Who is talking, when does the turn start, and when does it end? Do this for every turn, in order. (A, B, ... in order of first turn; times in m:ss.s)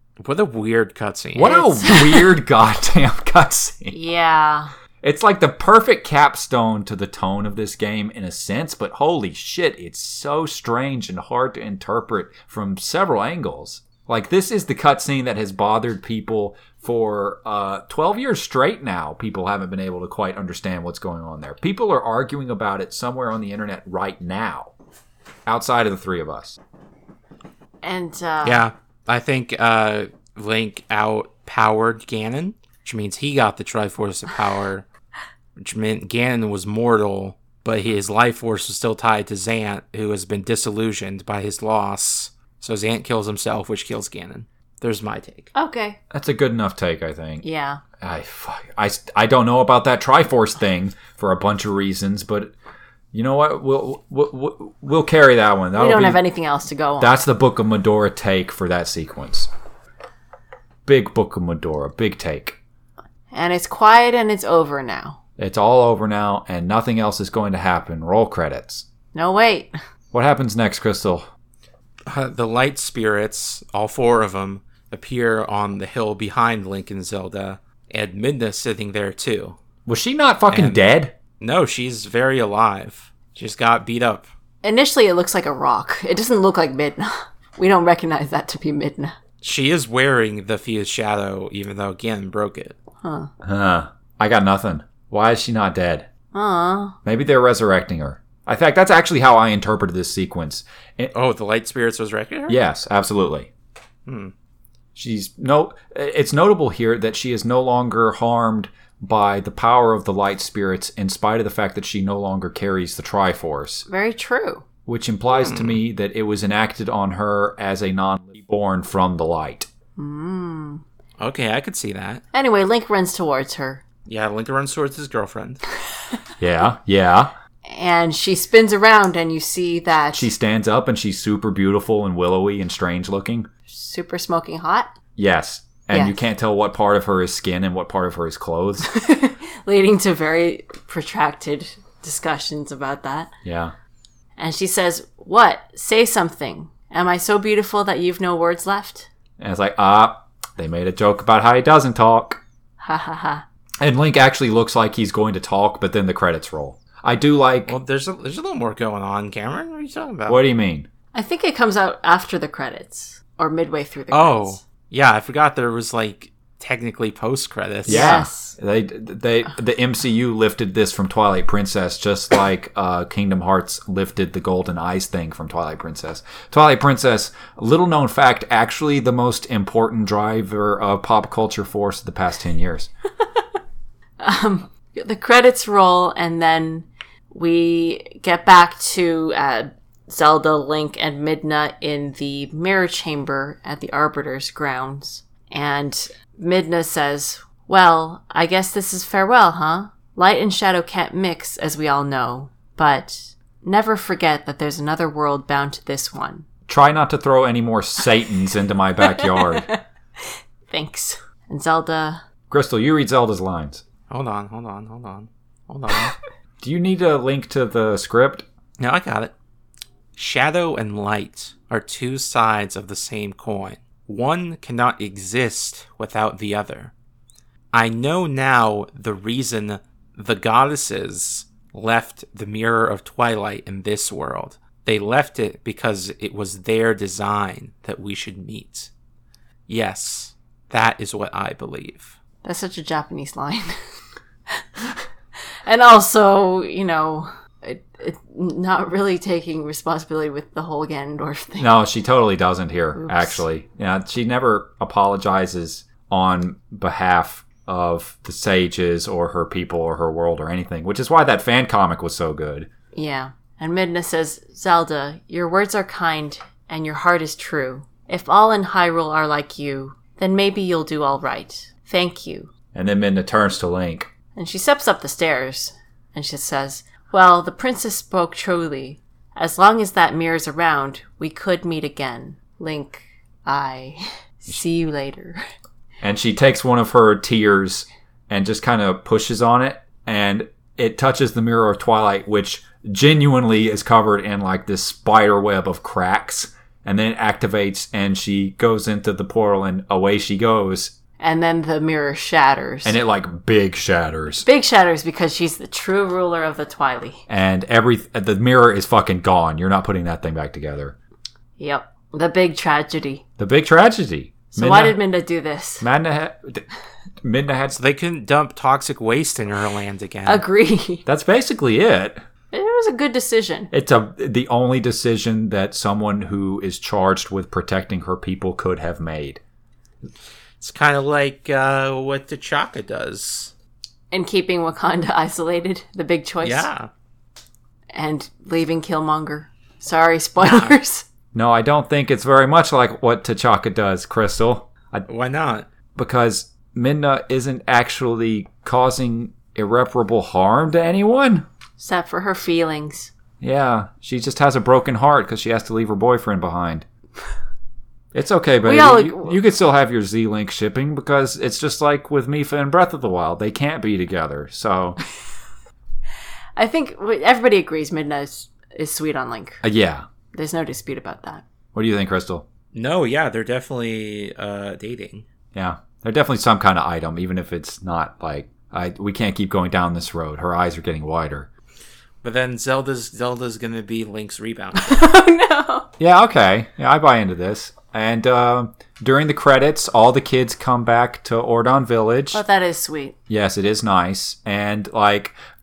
0:00.2-0:01.6 A
0:01.4-0:04.0 B
0:01.4-0:02.3 C
0:03.9-0:04.7 C
0:05.0-0:24.7 B
0:25.5-0:26.6 B
0:27.8-0:28.7 C
0:28.4-0:34.8 A
0:35.6-0:45.5 A
0:45.6-0:46.0 C
0:46.1-0:47.4 B
0:47.4-0:47.8 C
0:48.0-0:52.5 B
0:53.1-0:56.2 B
0:55.8-0:57.2 C
0:57.0-0:59.5 B
1:00.9-1:02.6 B
1:03.3-1:05.2 C
1:05.4-1:08.8 B
1:09.1-1:09.7 C
1:10.1-1:11.3 B
1:12.1-1:19.6 A
1:19.9-1:21.2 B
1:20.5-1:20.8 A
1:21.4-1:24.3 A
1:24.6-1:29.2 C
1:29.4-1:32.8 A
1:33.0-1:33.3 C
1:33.4-1:36.1 B
1:36.3-1:37.0 C
1:37.0-1:41.1 B
1:41.1-1:42.6 A
1:42.5-1:43.5 B
1:44.1-1:44.3 A
1:45.0-1:53.9 B
1:53.9-1:54.6 C
1:54.9-1:59.7 B
1:55.3-1:55.8 A
2:00.0-2:00.8 C
2:01.2-2:02.2 A
2:02.3-2:03.8 C
2:04.1-2:05.6 A
2:06.4-2:07.3 B
2:07.7-2:10.3 C
2:10.1-2:13.5 B
2:13.7-2:14.9 C
2:15.2-2:18.9 B
2:15.9-2:16.2 C
2:18.8-2:23.3 C
2:23.4-2:23.7 B
2:24.4-2:29.1 C
2:29.4-2:32.4 B
2:32.8-2:33.4 C
2:33.8-2:37.8 B
2:37.7-2:40.4 A
2:40.3-2:40.9 B
2:41.1-2:44.6 C
2:44.1-2:48.1 A
2:47.9-2:48.6 C
2:47.9-3:02.9 B
3:04.2-3:26.4 C
3:26.7-3:29.7 B
3:29.0-3:29.8 C
3:30.7-3:32.2 C
3:32.5-3:33.8 B
3:34.1-3:36.2 A
3:36.6-3:38.5 B
3:38.8-3:39.3 A
3:40.2-3:46.9 A
3:47.7-3:58.9 A
3:59.7-4:02.2 A
4:02.4-4:03.7 C
4:04.5-4:04.9 C
4:05.6-4:11.7 C
4:11.6-4:22.7 B
4:13.0-4:13.4 C
4:22.9-4:32.5 C
4:32.7-4:34.1 B
4:34.4-4:45.4 C
4:46.0-5:00.9 B
5:01.2-5:03.0 C
5:02.8-5:04.5 B
5:04.4-5:07.2 C
5:07.3-5:11.0 B
5:11.6-5:13.2 C
5:13.4-5:15.0 B
5:14.5-5:15.9 C
5:15.8-5:16.7 B
5:17.2-5:17.8 B
5:17.8-5:20.4 A
5:20.3-5:21.0 C
5:21.1-5:22.2 B
5:22.5-5:23.7 C
5:23.7-5:29.4 B
5:30.6-5:33.5 A
5:34.1-5:36.7 C
5:36.4-5:36.9 A
5:37.9-5:41.1 C
5:40.4-5:40.8 A
5:41.3-5:45.1 B
5:45.1-5:45.7 A
5:46.0-5:51.5 B
5:51.8-5:53.1 C
5:53.4-5:56.9 B
5:58.1-6:05.0 B
5:58.6-5:59.4 C
6:06.6-6:09.6 C
6:09.6-6:10.1 B
6:10.3-6:11.4 C
6:11.7-6:12.4 B
6:12.7-6:15.3 A
6:15.5-6:21.5 B
6:22.2-6:25.0 A
6:24.8-6:25.9 C
6:26.0-6:32.4 B
6:32.3-6:33.2 C
6:33.3-6:35.4 B